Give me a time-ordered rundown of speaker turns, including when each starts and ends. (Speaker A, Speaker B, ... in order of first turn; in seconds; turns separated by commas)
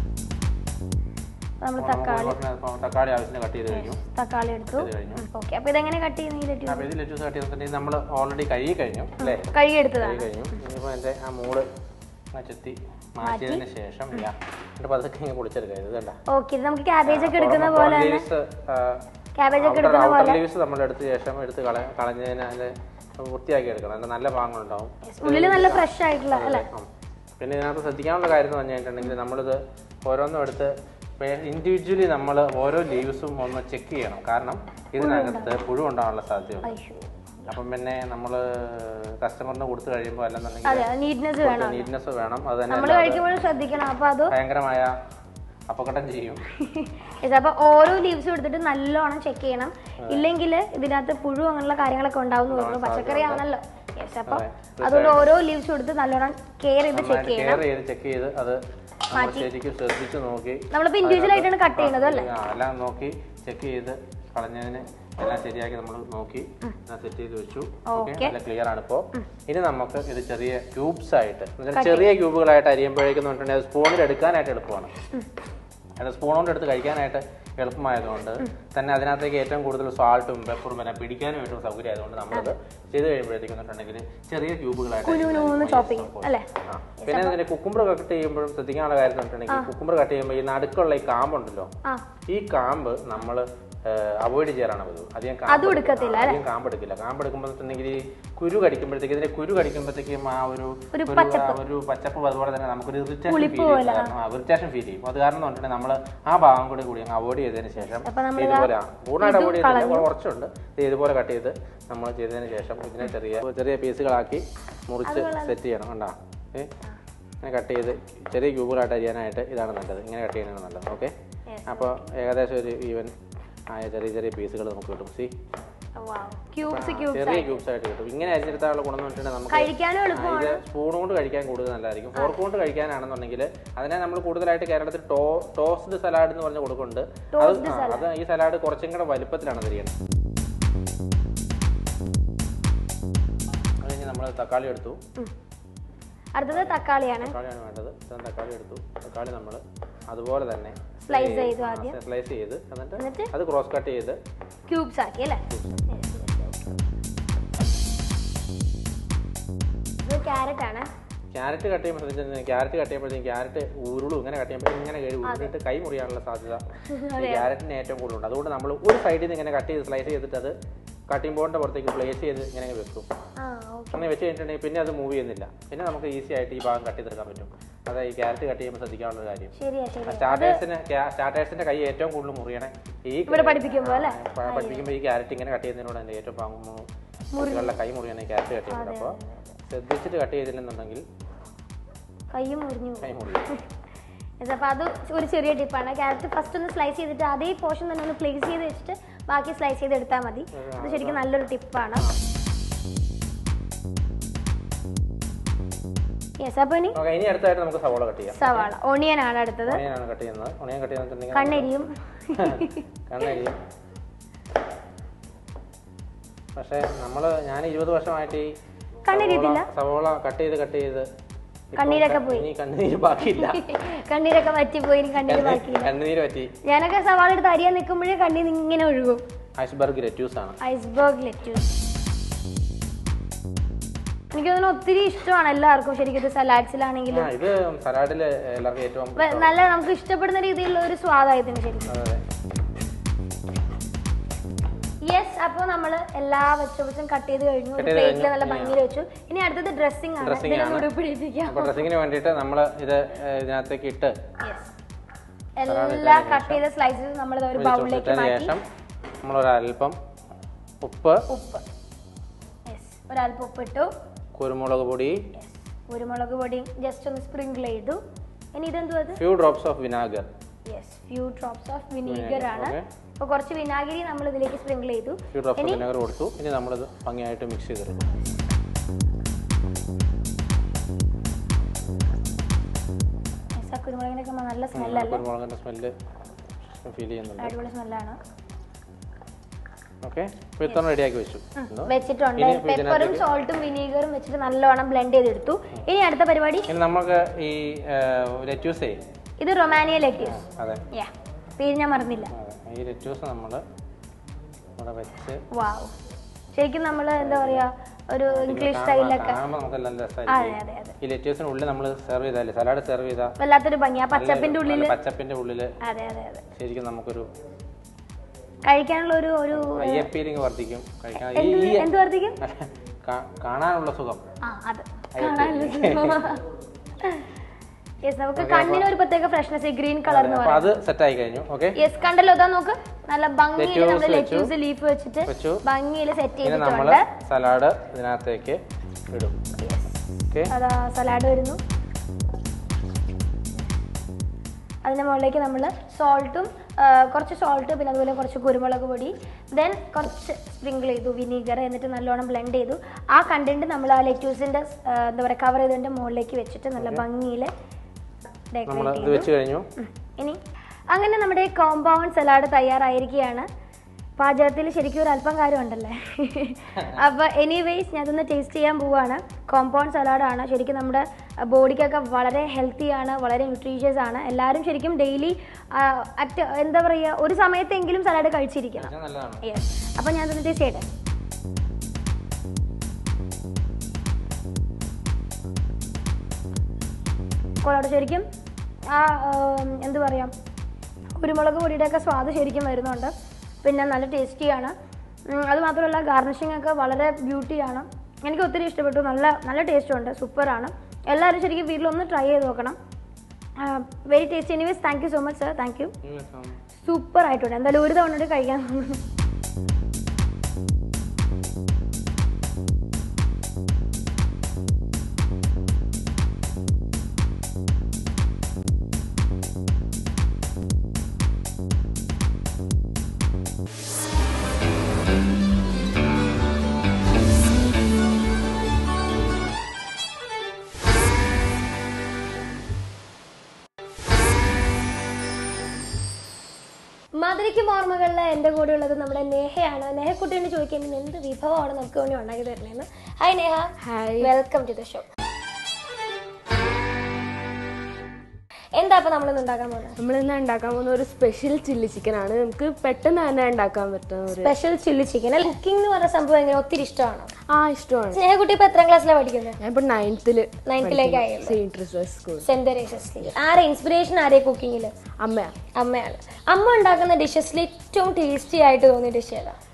Speaker A: 1.6-2.4, Speaker B: 1.8-4.0, Speaker A: 3.7-6.9, Speaker B: 4.7-5.3, Speaker B: 6.7-11.7, Speaker A: 9.2-10.2, Speaker B: 12.3-16.2, Speaker A: 13.2-13.6, Speaker A: 16.3-18.2, Speaker B: 17.1-19.0, Speaker A: 19.4-20.4, Speaker B: 19.6-26.9, Speaker A: 25.0-26.6, Speaker B: 27.4-36.8, Speaker A: 35.0-35.5, Speaker A: 36.6-37.0, Speaker B: 37.5-40.9, Speaker A: 40.7-41.9, Speaker B: 41.4-43.2, Speaker A: 42.7-44.4, Speaker B: 44.3-45.0, Speaker B: 45.7-46.4, Speaker A: 46.6-57.6, Speaker B: 52.5-53.4, Speaker B: 54.3-55.3, Speaker B: 56.9-74.9, Speaker A: 59.1-59.5, Speaker A: 60.7-62.3, Speaker A: 67.9-68.3, Speaker A: 71.7-72.2, Speaker B: 76.0-91.7, Speaker A: 85.0-86.5, Speaker A: 87.0-87.4, Speaker B: 92.3-116.7, Speaker A: 95.5-96.4, Speaker A: 100.9-101.6, Speaker A: 103.3-104.1, Speaker A: 107.8-108.7, Speaker A: 109.2-110.1, Speaker A: 115.0-115.6, Speaker B: 117.4-121.1, Speaker A: 121.5-122.0, Speaker B: 121.7-123.2, Speaker B: 123.7-125.3, Speaker A: 126.0-127.6, Speaker B: 126.7-139.9, Speaker A: 129.5-130.6, Speaker A: 137.3-138.1, Speaker B: 143.8-145.0, Speaker A: 146.4-147.3, Speaker B: 146.5-154.2, Speaker A: 151.1-152.0, Speaker A: 153.0-153.3, Speaker A: 154.7-156.7, Speaker B: 155.5-156.0, Speaker A: 160.1-160.9, Speaker B: 161.3-166.7, Speaker A: 165.2-165.5, Speaker A: 166.9-167.5, Speaker B: 167.2-170.6, Speaker B: 171.1-173.1, Speaker A: 173.4-174.1, Speaker B: 173.9-179.5, Speaker A: 179.6-180.6, Speaker B: 180.1-186.9, Speaker A: 183.3-184.9, Speaker A: 187.3-187.8, Speaker B: 187.4-189.2, Speaker A: 188.7-189.5, Speaker B: 189.7-191.0, Speaker A: 192.3-193.6, Speaker B: 193.0-193.4, Speaker A: 194.4-202.1, Speaker B: 200.6-201.2, Speaker A: 206.4-207.0, Speaker B: 206.9-208.7, Speaker A: 208.4-209.8, Speaker B: 209.7-211.7, Speaker A: 211.3-212.8, Speaker B: 212.4-213.6, Speaker B: 216.6-218.5, Speaker A: 219.1-219.7, Speaker B: 219.1-221.1, Speaker B: 221.7-223.6, Speaker A: 221.8-222.5, Speaker A: 223.4-225.9, Speaker B: 225.3-226.5, Speaker A: 226.7-229.2, Speaker B: 229.6-230.6, Speaker A: 230.6-231.7, Speaker A: 234.3-237.3, Speaker B: 237.1-239.7, Speaker A: 239.2-241.9, Speaker B: 241.9-242.2, Speaker A: 245.1-251.8, Speaker B: 247.8-248.8, Speaker B: 250.2-250.9, Speaker B: 251.5-254.2, Speaker A: 254.4-254.7, Speaker A: 255.6-258.6, Speaker B: 255.7-256.6, Speaker B: 257.6-258.6, Speaker B: 259.2-260.0, Speaker B: 260.8-261.2, Speaker A: 261.3-261.6, Speaker A: 262.7-263.9, Speaker B: 264.4-265.2, Speaker A: 265.3-268.0, Speaker A: 268.6-269.2, Speaker B: 269.2-270.3, Speaker A: 270.7-275.8, Speaker B: 272.1-272.9, Speaker B: 275.3-278.1, Speaker A: 283.6-285.2, Speaker B: 284.8-285.9, Speaker B: 286.7-287.6, Speaker A: 287.4-288.2, Speaker B: 290.0-293.2, Speaker A: 291.6-296.7, Speaker B: 296.7-299.0, Speaker A: 299.4-302.3, Speaker B: 300.2-300.9, Speaker B: 302.3-303.6, Speaker B: 304.8-305.4, Speaker A: 305.5-305.9, Speaker A: 306.5-309.4, Speaker B: 307.2-307.7, Speaker B: 308.3-313.3, Speaker A: 310.3-310.9, Speaker A: 313.4-314.9, Speaker B: 314.1-315.7, Speaker A: 315.8-316.4, Speaker B: 316.6-317.3, Speaker A: 318.6-320.1, Speaker B: 319.5-321.9, Speaker A: 321.1-322.4, Speaker B: 322.4-324.2, Speaker A: 324.4-326.4, Speaker B: 325.2-326.3, Speaker A: 328.0-330.7, Speaker B: 328.4-328.9, Speaker B: 330.1-331.8, Speaker A: 331.8-337.0, Speaker B: 333.6-334.5, Speaker B: 335.3-335.6, Speaker B: 336.4-338.6, Speaker B: 339.1-339.4, Speaker A: 339.6-341.6, Speaker A: 344.8-357.5, Speaker A: 358.5-363.5, Speaker B: 358.7-359.7, Speaker A: 364.2-378.9, Speaker B: 378.8-379.4, Speaker A: 379.4-380.9, Speaker A: 387.6-388.3, Speaker A: 388.9-390.3, Speaker A: 391.2-393.1, Speaker A: 393.6-394.7, Speaker A: 395.3-402.8, Speaker A: 403.6-405.9, Speaker B: 406.0-406.6, Speaker A: 406.8-409.0, Speaker A: 437.2-445.1, Speaker C: 443.8-444.3, Speaker A: 448.8-450.0, Speaker C: 450.0-454.5, Speaker A: 454.3-457.3, Speaker C: 457.5-458.2, Speaker A: 458.1-459.6, Speaker C: 459.6-462.5, Speaker A: 460.7-461.6, Speaker A: 462.4-464.9, Speaker C: 465.2-465.5, Speaker A: 465.8-469.6